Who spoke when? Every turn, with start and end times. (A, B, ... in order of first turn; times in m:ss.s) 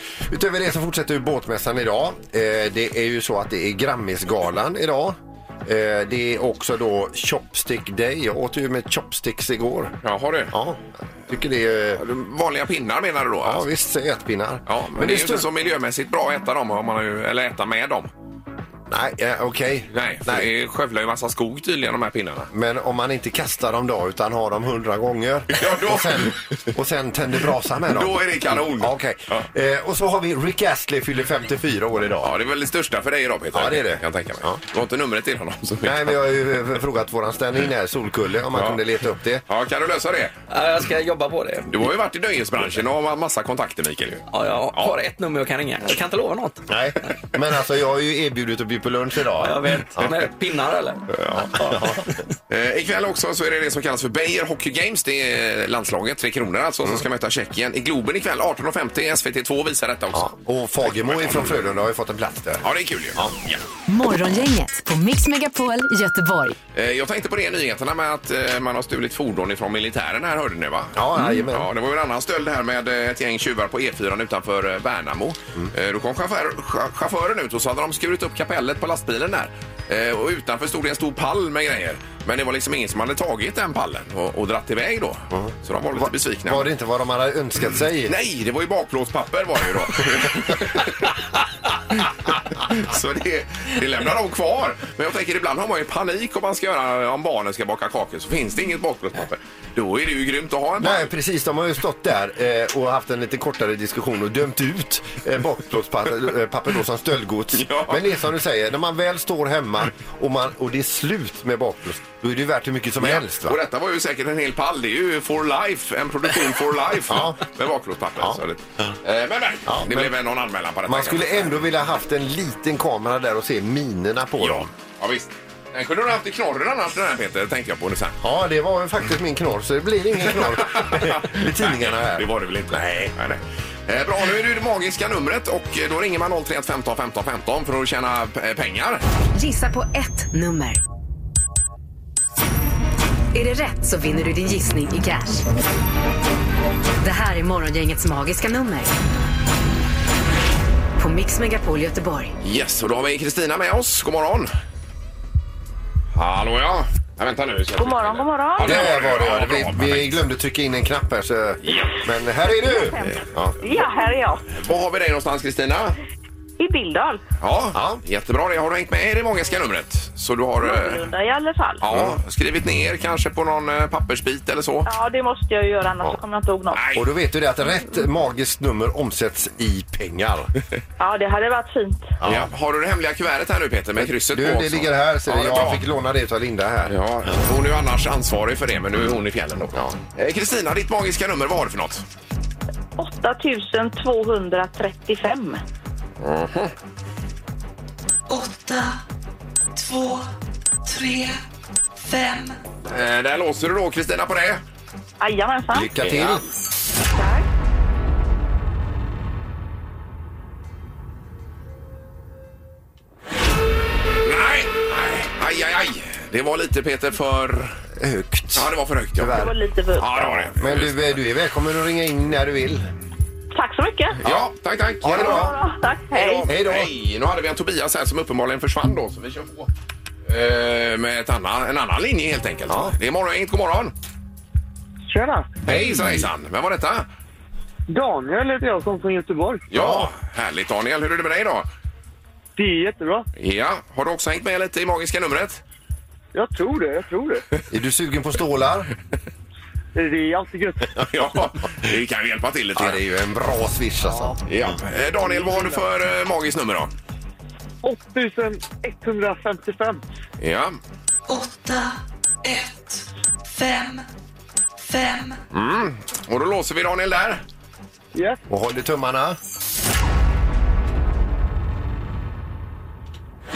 0:00.3-0:10.0 A
0:10.0-0:10.6 B
0:10.5-0:12.0 A
0:12.0-0:13.6 B
0:13.4-0:15.5 A
0:14.7-0:18.1 B
0:18.9-0:20.5 A
0:19.9-0:22.5 B
0:22.5-0:32.3 A
0:25.5-0:26.6 B
0:27.9-0:29.5 B
0:32.2-0:36.2 B
0:33.5-0:34.6 A
0:35.8-0:39.4 A
0:38.5-0:38.8 B
0:39.5-0:40.4 B
0:40.5-0:41.8 C
0:41.7-0:44.9 B
0:44.3-0:46.7 C
0:46.7-0:50.1 A
0:49.4-0:51.0 C
0:51.2-0:51.8 B
0:51.4-0:52.1 A
0:52.5-1:01.5 B
1:00.1-1:03.3 A
1:02.6-1:03.6 B
1:03.9-1:06.6 D
1:06.7-1:26.7 B
1:11.0-1:11.7 A
1:25.3-1:28.2 A
1:28.1-1:31.2 B
1:31.9-1:41.1 B
1:40.8-1:53.6 A
1:47.6-1:48.0 B
1:53.0-2:01.6 B
1:57.1-1:57.4 A
1:59.7-2:00.1 A
2:00.9-2:04.7 A
2:04.4-2:08.2 B
2:08.2-2:13.2 A
2:10.4-2:19.0 B
2:19.4-2:20.8 D
2:23.3-2:25.4 D
2:27.0-2:28.9 D
2:31.0-2:32.4 D
2:32.4-2:34.5 B
2:36.2-2:40.2 B
2:37.8-2:38.9 E
2:38.6-2:43.6 A
2:42.5-2:44.5 E
2:44.5-2:46.0 B
2:46.6-2:47.2 E
2:47.4-2:51.1 B
2:47.7-2:48.0 A
2:50.6-2:51.8 E
2:51.8-2:54.9 B
2:51.9-2:52.2 A
2:54.9-2:56.8 E
2:56.7-2:57.1 B
2:56.9-3:00.5 A
3:01.0-3:02.2 E
3:02.2-3:02.5 A
3:02.2-3:05.8 B
3:04.2-3:07.0 A
3:06.9-3:12.0 B
3:13.0-3:15.6 E
3:16.2-3:16.7 B
3:18.3-3:19.0 F
3:19.7-3:20.3 F
3:20.8-3:21.4 F
3:22.0-3:22.6 F
3:22.9-3:24.6 B
3:25.2-3:25.9 E
3:25.7-3:26.4 A
3:26.0-3:26.5 B
3:27.2-3:27.4 E
3:34.2-3:37.8 B
3:38.0-3:39.6 A
3:38.6-3:39.4 B
3:39.3-3:40.2 E
3:40.0-3:41.1 B
3:40.1-3:42.9 A
3:43.5-3:44.2 E
3:44.2-3:45.5 B
3:45.0-3:45.6 A
3:45.1-3:46.5 E
3:46.1-3:49.7 B
3:46.4-3:46.9 A
3:50.3-3:53.9 B
3:52.7-3:53.0 A
3:55.1-3:55.6 G
3:55.6-3:57.1 B
3:55.7-3:56.0 A
3:57.9-3:59.7 G
3:59.7-4:01.7 B
3:59.7-4:00.1 A
4:02.6-4:03.3 G
4:03.4-4:05.6 B
4:06.3-4:07.4 G
4:07.7-4:08.9 A
4:10.0-4:10.8 G
4:11.0-4:13.0 B
4:12.8-4:14.4 A
4:14.4-4:16.9 B
4:15.3-4:15.8 G
4:17.8-4:20.0 G
4:20.4-4:20.8 B
4:21.3-4:24.0 F
4:24.8-4:25.4 F
4:25.5-4:27.4 B
4:28.2-4:28.4 G
4:28.5-4:29.4 A